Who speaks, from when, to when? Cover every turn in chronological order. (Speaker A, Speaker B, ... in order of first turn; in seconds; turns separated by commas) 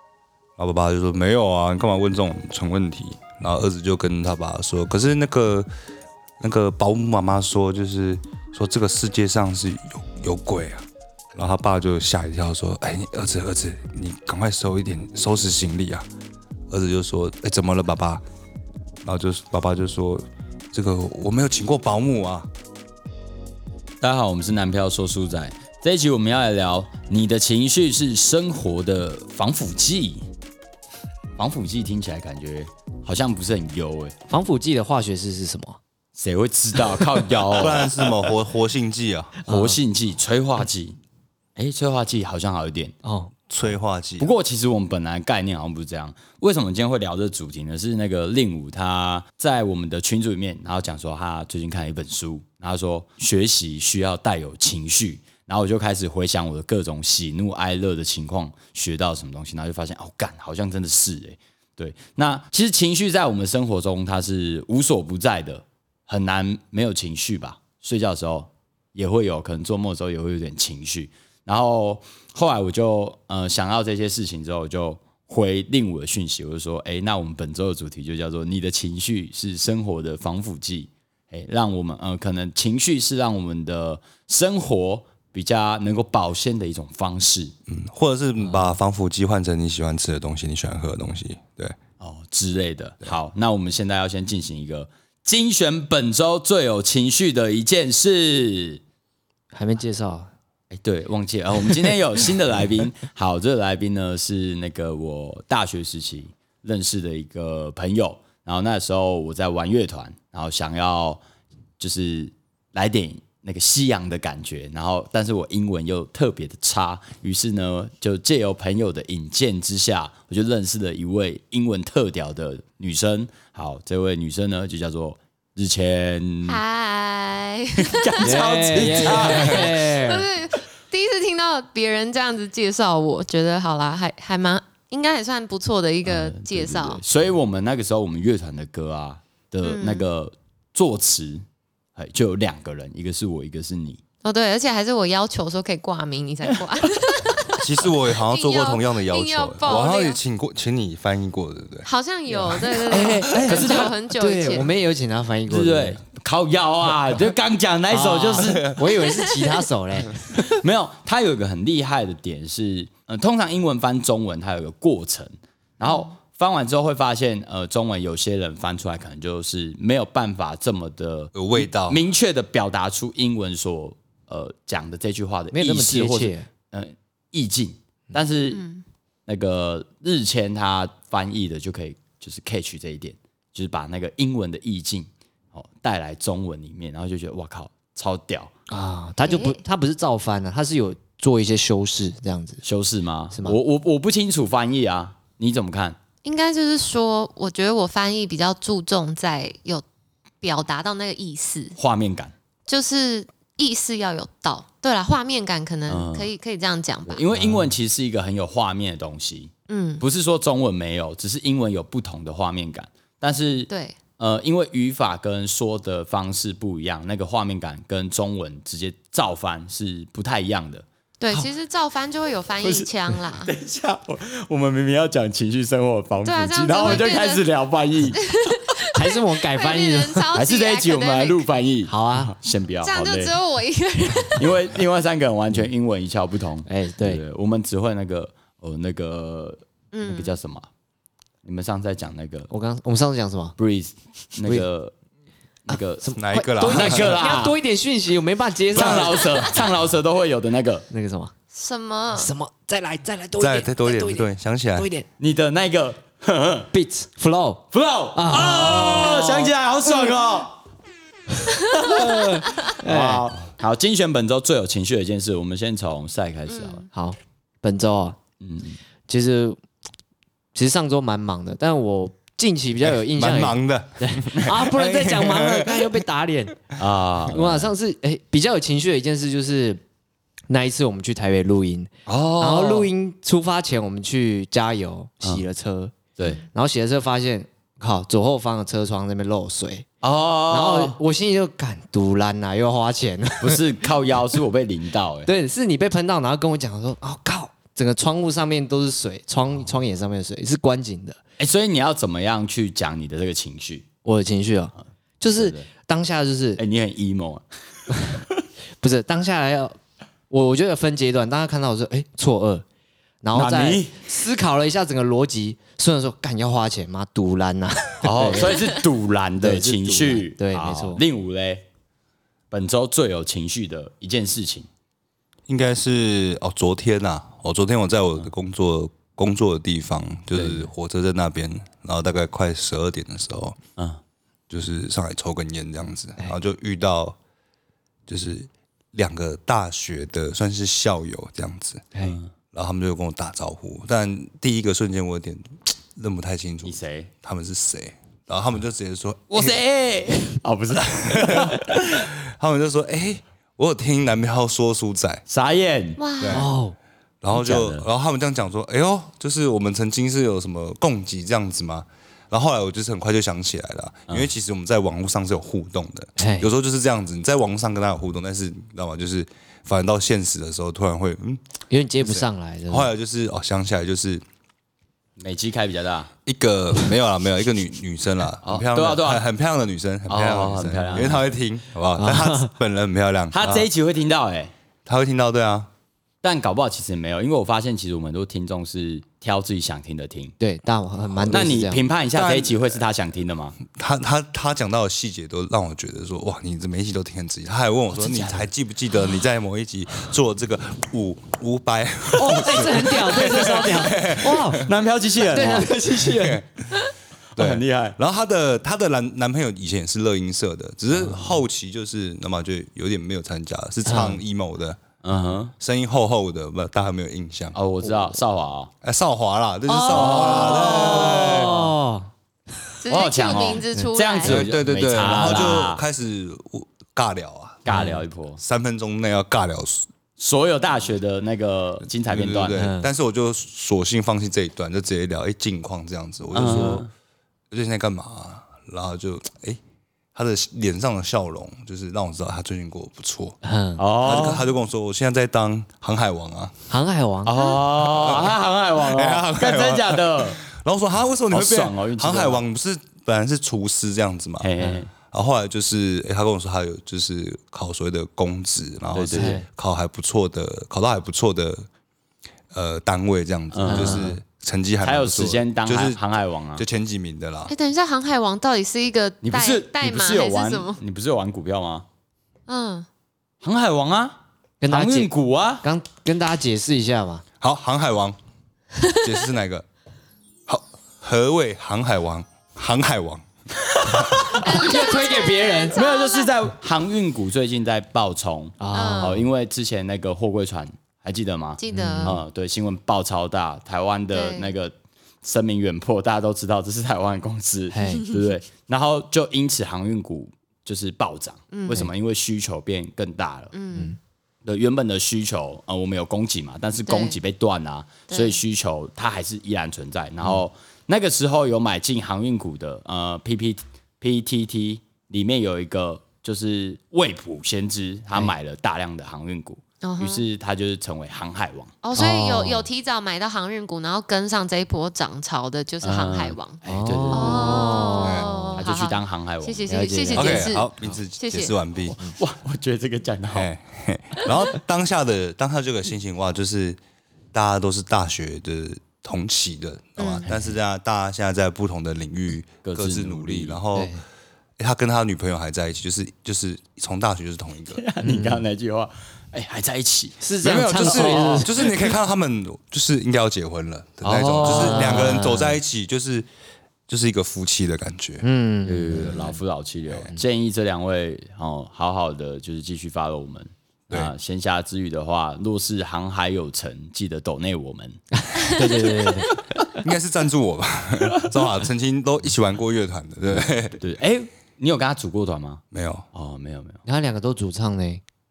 Speaker A: 0.6-5.7, Speaker A: 6.4-16.1, Speaker A: 16.7-18.2, Speaker A: 19.0-22.5, Speaker B: 24.0-30.2, Speaker B: 31.4-34.1, Speaker C: 34.3-35.8, Speaker B: 36.1-38.3, Speaker A: 37.5-39.4, Speaker C: 39.5-39.8, Speaker B: 39.5-41.0, Speaker B: 41.6-43.0, Speaker C: 43.0-43.3, Speaker A: 43.5-44.3, Speaker B: 44.2-87.5, Speaker A: 87.7-91.8, Speaker C: 88.4-88.8, Speaker B: 92.0-98.8, Speaker C: 99.5-100.3, Speaker B: 100.7-111.2, Speaker B: 111.8-126.6, Speaker D: 126.5-137.0, Speaker B: 127.8-129.8, Speaker C: 128.2-130.3, Speaker B: 136.1-141.4, Speaker D: 139.6-140.1, Speaker B: 142.0-144.0, Speaker D: 144.2-147.6, Speaker A: 147.6-151.9, Speaker D: 148.2-150.2, Speaker D: 151.8-154.7, Speaker A: 152.5-153.5, Speaker B: 152.8-154.0, Speaker C: 153.2-156.0, Speaker B: 155.5-158.8, Speaker C: 157.9-160.2, Speaker A: 158.4-158.9, Speaker D: 159.0-159.5, Speaker B: 160.4-178.6, Speaker D: 165.9-166.1, Speaker A: 171.3-172.0, Speaker C: 175.5-176.5, Speaker D: 178.5-178.8, Speaker B: 179.3-188.5, Speaker C: 188.7-192.6, Speaker D: 189.2-189.6, Speaker B: 192.6-196.0, Speaker C: 193.3-193.6, Speaker D: 196.2-199.8, Speaker D: 200.4-201.8, Speaker B: 201.8-202.3, Speaker D: 202.7-207.2, Speaker B: 205.9-206.3, Speaker B: 207.1-220.8, Speaker C: 207.4-207.7, Speaker D: 209.7-210.1, Speaker D: 213.7-214.0, Speaker D: 221.2-223.5, Speaker B: 222.6-228.2, Speaker D: 226.2-227.4, Speaker D: 228.1-231.4, Speaker C: 228.9-230.3, Speaker B: 230.3-233.4, Speaker C: 231.9-232.3, Speaker D: 232.8-234.6, Speaker B: 234.3-240.7, Speaker C: 236.7-237.2, Speaker D: 239.9-240.3, Speaker B: 241.4-242.5, Speaker C: 242.5-243.6, Speaker B: 243.6-244.9, Speaker B: 245.7-247.6, Speaker C: 245.7-249.5, Speaker A: 246.2-247.2, Speaker B: 248.7-250.9, Speaker A: 248.7-249.3, Speaker C: 250.9-251.3, Speaker D: 251.5-252.3, Speaker C: 252.2-255.1, Speaker A: 253.4-254.9, Speaker B: 255.2-256.7, Speaker C: 256.7-259.5, Speaker B: 257.7-260.6, Speaker C: 261.6-263.3, Speaker B: 261.9-266.9, Speaker D: 266.5-266.9, Speaker C: 266.9-268.2, Speaker B: 268.4-268.8, Speaker C: 269.1-269.6, Speaker C: 270.6-276.6, Speaker A: 272.9-276.0, Speaker B: 276.8-277.7, Speaker C: 277.3-279.8, Speaker C: 280.5-289.9, Speaker B: 282.1-282.9, Speaker B: 286.2-286.4, Speaker B: 290.0-291.0, Speaker C: 290.5-293.7, Speaker B: 293.4-295.3, Speaker C: 295.2-301.2, Speaker B: 301.4-303.9, Speaker C: 304.1-306.6, Speaker B: 305.3-305.7, Speaker B: 306.6-307.4, Speaker C: 308.8-309.8, Speaker C: 310.3-312.6, Speaker C: 313.2-318.7, Speaker B: 313.3-314.0, Speaker B: 318.0-321.6, Speaker C: 319.4-321.0, Speaker B: 322.5-324.7, Speaker A: 325.5-333.6, Speaker B: 330.3-330.7, Speaker A: 334.5-337.2, Speaker A: 338.1-341.9, Speaker B: 342.0-342.3, Speaker A: 342.5-345.4, Speaker A: 345.9-349.6, Speaker B: 346.6-347.1, Speaker B: 349.3-351.8, Speaker A: 351.1-355.2, Speaker B: 355.3-356.0, Speaker D: 356.0-356.5, Speaker A: 356.2-356.5, Speaker C: 356.3-356.8, Speaker A: 357.2-371.4, Speaker B: 357.3-357.9, Speaker C: 366.2-366.5, Speaker C: 371.7-372.9, Speaker A: 372.0-374.2, Speaker B: 375.2-376.1, Speaker A: 376.3-383.7, Speaker B: 378.4-379.2, Speaker B: 380.1-381.3, Speaker C: 382.0-382.5, Speaker B: 383.3-384.5, Speaker A: 384.9-385.7, Speaker B: 386.2-390.3, Speaker C: 390.4-391.8, Speaker A: 391.1-391.5, Speaker B: 391.3-393.6, Speaker A: 392.1-392.8, Speaker A: 393.7-404.7, Speaker B: 397.9-398.5, Speaker C: 402.2-404.6, Speaker B: 404.5-406.1, Speaker C: 405.2-406.4, Speaker A: 405.8-406.8, Speaker B: 407.4-408.0, Speaker A: 407.4-414.8, Speaker B: 410.9-411.4, Speaker C: 413.9-414.2, Speaker B: 415.0-415.5, Speaker A: 415.6-417.7, Speaker B: 417.5-418.7, Speaker A: 418.8-421.6, Speaker C: 419.7-422.1, Speaker B: 419.9-421.7, Speaker D: 422.8-424.4, Speaker B: 422.9-425.8, Speaker A: 424.2-429.9, Speaker B: 427.6-428.4, Speaker C: 427.7-428.0, Speaker B: 430.2-432.6, Speaker A: 431.9-436.9, Speaker C: 432.5-432.9, Speaker B: 436.3-436.9, Speaker A: 437.5-439.6, Speaker A: 440.1-443.4, Speaker C: 443.4-443.8, Speaker B: 443.8-444.5, Speaker A: 444.0-446.5, Speaker C: 446.7-447.4, Speaker B: 447.2-450.4, Speaker A: 448.0-454.5, Speaker B: 451.3-452.4, Speaker B: 454.4-454.9, Speaker A: 455.1-461.7, Speaker B: 458.9-459.4, Speaker C: 459.1-459.5, Speaker A: 462.5-466.0, Speaker B: 463.5-464.1, Speaker C: 463.7-464.2, Speaker B: 464.8-466.6, Speaker A: 466.6-467.5, Speaker D: 467.5-470.8, Speaker B: 469.2-471.9, Speaker D: 472.5-472.9, Speaker B: 473.4-475.6, Speaker C: 474.6-477.2, Speaker A: 477.4-478.2, Speaker A: 478.9-479.6, Speaker A: 480.5-483.2, Speaker A: 483.8-484.3, Speaker C: 484.4-485.8, Speaker D: 484.4-486.3, Speaker B: 485.7-503.5, Speaker C: 488.6-489.2, Speaker D: 488.7-489.2, Speaker D: 491.6-492.2, Speaker C: 491.7-492.2, Speaker D: 494.1-494.5, Speaker C: 497.7-498.1, Speaker D: 501.5-501.9, Speaker D: 503.5-504.0, Speaker B: 504.4-521.8, Speaker D: 506.9-507.2, Speaker D: 508.1-508.4, Speaker D: 519.8-520.2, Speaker D: 521.8-526.6, Speaker C: 522.0-522.7, Speaker B: 525.8-527.9, Speaker C: 526.7-528.5, Speaker D: 527.1-531.6, Speaker A: 528.0-528.3, Speaker B: 528.6-529.8, Speaker C: 529.7-531.0, Speaker A: 530.1-532.0, Speaker B: 532.0-533.5, Speaker A: 533.3-536.8, Speaker A: 537.3-544.0, Speaker D: 540.0-540.3, Speaker C: 540.2-540.5, Speaker B: 542.6-543.6, Speaker C: 543.8-544.0, Speaker A: 544.6-547.8, Speaker B: 547.7-551.7, Speaker C: 548.0-548.5, Speaker C: 550.2-551.5, Speaker A: 550.4-556.3, Speaker B: 554.0-555.1, Speaker C: 554.4-555.6, Speaker A: 556.9-558.3, Speaker C: 558.2-559.4, Speaker B: 558.6-568.0, Speaker C: 568.4-569.3, Speaker B: 568.6-569.2, Speaker A: 569.8-573.8, Speaker B: 573.8-576.8, Speaker A: 575.7-576.1, Speaker C: 576.9-578.0